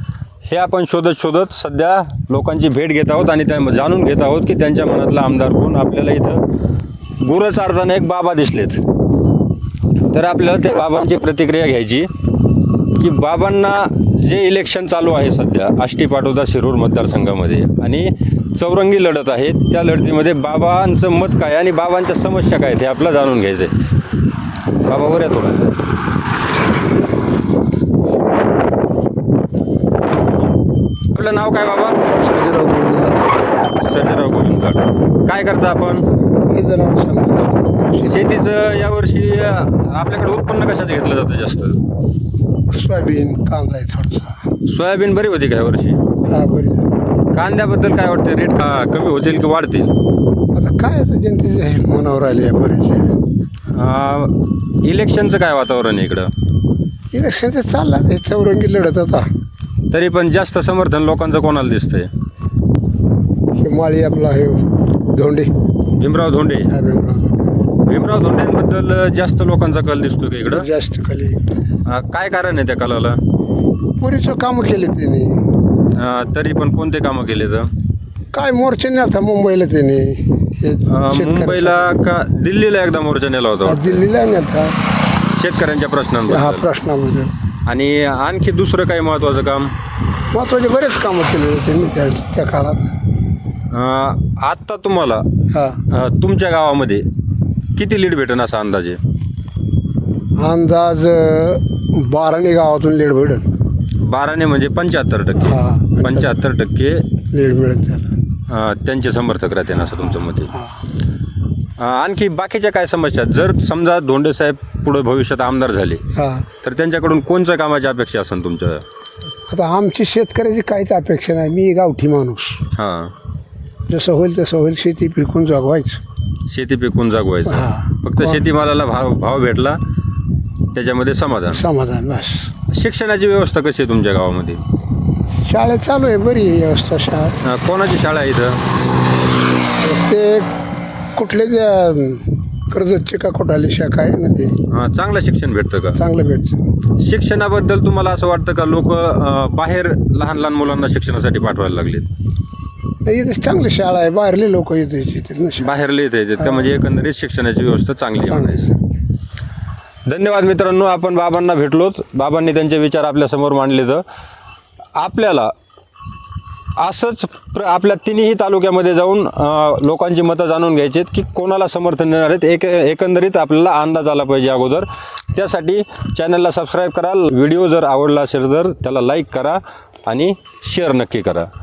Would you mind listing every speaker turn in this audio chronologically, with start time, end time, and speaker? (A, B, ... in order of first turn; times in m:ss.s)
0:00.4-0:06.4 A
0:07.2-0:08.8 A
0:10.1-0:12.1 A
0:12.9-0:23.7 A
0:24.9-0:25.7 A
0:31.1-0:32.0 A
0:32.1-0:33.3 B
0:33.8-0:36.0 A
0:36.5-0:38.3 B
0:38.0-0:41.8 A
0:42.7-0:44.4 B
0:44.6-0:46.0 A
0:46.3-0:46.9 B
0:47.3-0:49.9 A
0:50.5-0:53.1 B
0:53.7-0:56.3 A
0:57.1-0:59.3 B
0:59.9-1:02.1 A
1:03.6-1:05.5 B
1:06.0-1:06.7 A
1:06.7-1:07.4 B
1:07.8-1:10.7 A
1:10.5-1:11.6 B
1:11.8-1:13.2 A
1:14.0-1:15.4 B
1:15.9-1:17.7 A
1:18.3-1:21.9 B
1:20.9-1:24.0 A
1:23.6-1:24.8 B
1:25.3-1:26.7 A
1:26.3-1:27.3 B
1:27.6-1:29.7 A
1:30.3-1:32.9 B
1:33.7-1:35.2 A
1:35.5-1:35.8 B
1:35.9-1:37.0 A
1:37.7-1:39.0 A
1:40.4-1:43.4 B
1:44.0-1:47.0 A
1:45.4-1:46.4 B
1:47.3-1:48.1 B
1:48.5-1:50.5 A
1:49.9-1:50.8 B
1:51.8-1:56.0 A
1:56.1-1:56.4 B
1:56.6-1:58.8 A
1:59.5-2:02.6 B
2:02.8-2:03.1 A
2:03.9-2:06.0 B
2:06.5-2:09.8 A
2:07.4-2:08.4 B
2:10.7-2:11.6 A
2:11.5-2:12.5 B
2:12.7-2:14.6 A
2:15.4-2:17.4 B
2:17.4-2:18.6 A
2:19.8-2:20.5 B
2:21.1-2:24.5 B
2:24.7-2:26.0 A
2:26.0-2:26.6 B
2:27.0-2:32.1 A
2:33.0-2:35.8 B
2:35.6-2:38.7 A
2:36.4-2:36.7 B
2:38.3-2:38.9 B
2:40.0-2:44.0 A
2:44.9-2:45.5 A
2:46.8-3:01.5 A